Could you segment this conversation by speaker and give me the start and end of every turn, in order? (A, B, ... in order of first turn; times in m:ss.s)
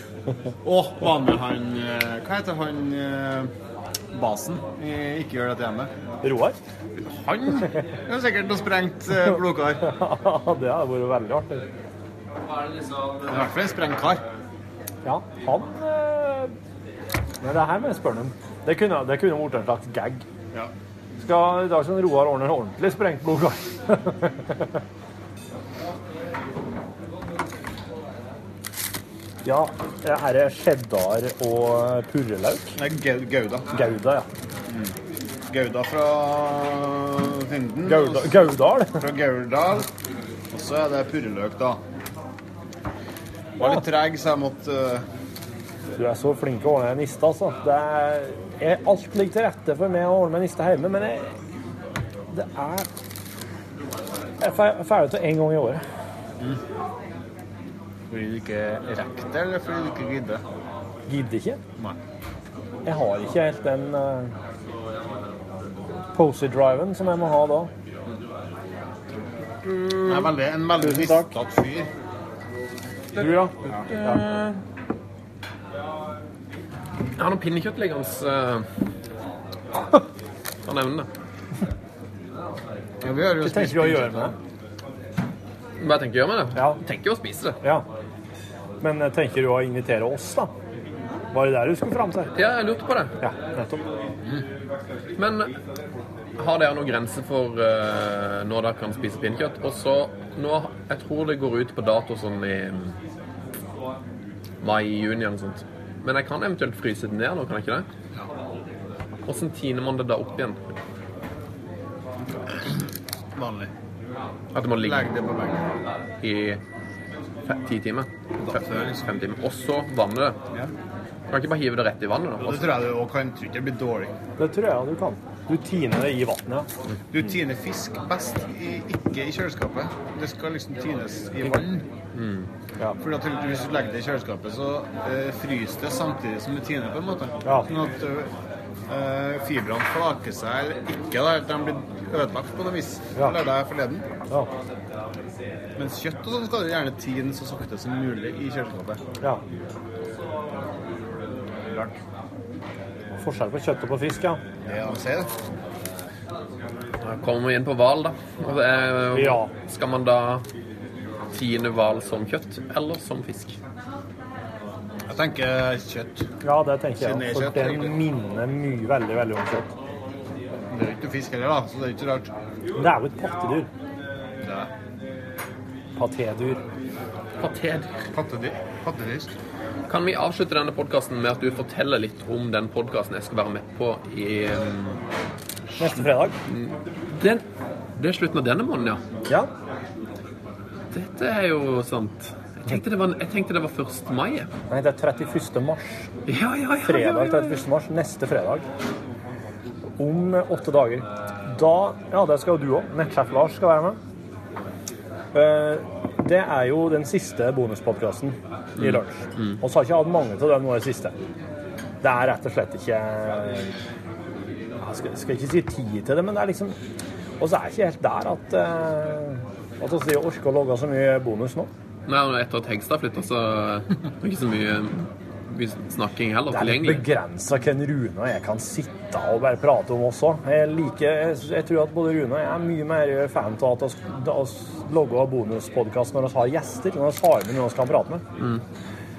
0:00.6-0:03.5 A
0:04.1-0:05.9 A
0:06.2-0:06.6 B
0:07.0-0:09.9 A
0:09.8-0:11.7 B
0:13.2-0:14.2 A
0:15.0-0:16.5 B
0:17.4-0:20.2 B
0:21.2-0:24.8 B
0:29.4-0:32.8 B
0:32.8-0:33.8 A
0:33.7-0:34.3 B
0:34.7-0:35.0 A
0:35.5-0:38.4 A
0:37.8-0:39.1 B
0:38.9-0:39.9 A
0:40.5-0:41.8 A
0:43.6-0:45.0 A
0:46.0-0:51.3 B
0:52.3-0:52.9 B
0:54.4-0:55.8 B
0:58.1-1:00.4 A
1:01.1-1:01.6 B
1:02.9-1:04.3 B
1:06.1-1:07.7 B
1:09.7-1:11.9 A
1:10.8-1:11.3 B
1:13.2-1:14.2 B
1:13.9-1:14.6 C
1:17.2-1:18.7 C
1:20.6-1:21.1 C
1:23.0-1:24.3 A
1:23.4-1:24.3 B
1:25.8-1:27.6 C
1:26.6-1:26.8 B
1:27.6-1:27.9 B
1:28.8-1:30.5 B
1:31.3-1:32.3 B
1:32.4-1:33.2 C
1:33.2-1:33.8 B
1:35.2-1:35.6 C
1:36.4-1:43.0 C
1:44.6-1:47.9 C
1:49.3-1:50.7 C
1:53.4-1:53.7 A
1:54.6-1:55.1 C
1:54.8-1:55.6 A
1:56.2-1:56.6 C
1:57.4-2:00.4 C
1:58.5-1:59.0 A
2:01.3-2:02.7 C
2:02.4-2:04.1 A
2:04.4-2:06.7 B
2:07.1-2:11.9 A
2:12.1-2:12.5 C
2:13.0-2:18.3 A
2:17.4-2:17.7 B
2:18.9-2:24.1 A
2:25.8-2:29.0 A
2:31.6-2:32.0 A
2:33.2-2:34.4 B
2:34.6-2:35.3 A
2:37.0-2:40.4 C
2:39.1-2:39.5 B
2:41.3-2:43.6 C
2:45.1-2:46.3 A
2:46.4-2:49.7 B
2:47.0-2:48.0 A
2:50.7-2:52.3 A
2:52.8-2:53.7 B
2:54.4-2:54.7 A
2:56.0-2:56.6 B
2:57.4-2:57.9 C
2:58.1-2:59.3 A
2:59.9-3:05.0 C
3:05.8-3:06.4 B
3:06.5-3:07.4 C
3:08.0-3:09.0 C
3:10.9-3:14.5 C
3:14.7-3:16.1 B
3:16.3-3:17.6 C
3:16.8-3:18.7 B
3:20.0-3:24.0 B
3:25.3-3:31.2 B
3:28.8-3:29.6 C
3:32.0-3:33.8 B
3:34.8-3:36.8 B
3:37.4-3:41.7 B
3:42.1-3:47.1 C
3:46.5-3:58.2 B